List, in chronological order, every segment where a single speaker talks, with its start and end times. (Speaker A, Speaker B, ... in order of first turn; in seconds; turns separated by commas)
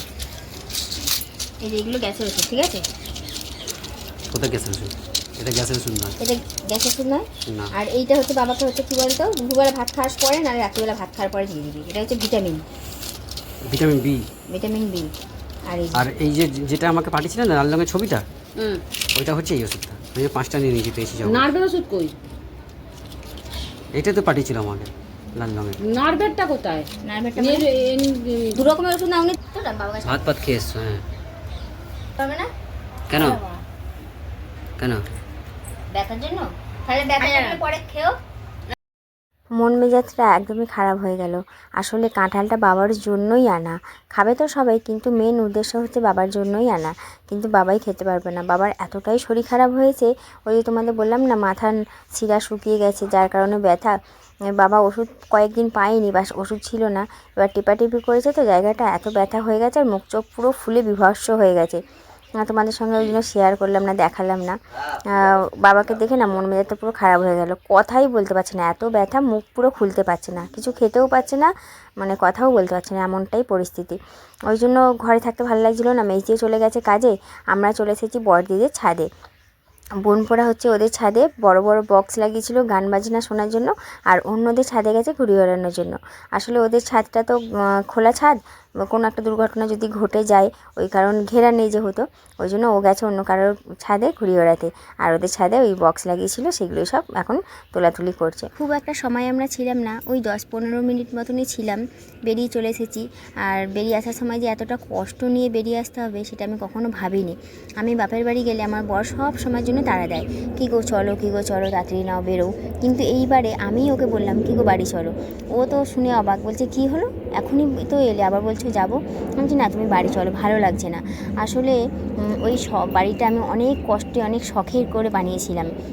Speaker A: 1.6-2.9, Speaker B: 4.3-6.2, Speaker A: 6.2-12.6, Speaker B: 13.7-14.2, Speaker A: 14.5-15.1, Speaker A: 15.7-16.1, Speaker B: 16.0-18.2, Speaker B: 19.2-21.5, Speaker C: 21.2-22.1, Speaker B: 24.0-25.8, Speaker C: 25.8-28.6, Speaker A: 27.0-27.7, Speaker A: 28.5-30.2, Speaker B: 30.1-31.0, Speaker A: 32.2-32.5, Speaker B: 33.1-33.4, Speaker A: 35.9-38.1, Speaker A: 39.6-54.0, Speaker A: 54.5-61.8, Speaker A: 62.4-64.6, Speaker A: 65.1-74.0, Speaker A: 74.5-79.1, Speaker A: 80.0-121.8, Speaker A: 122.3-125.7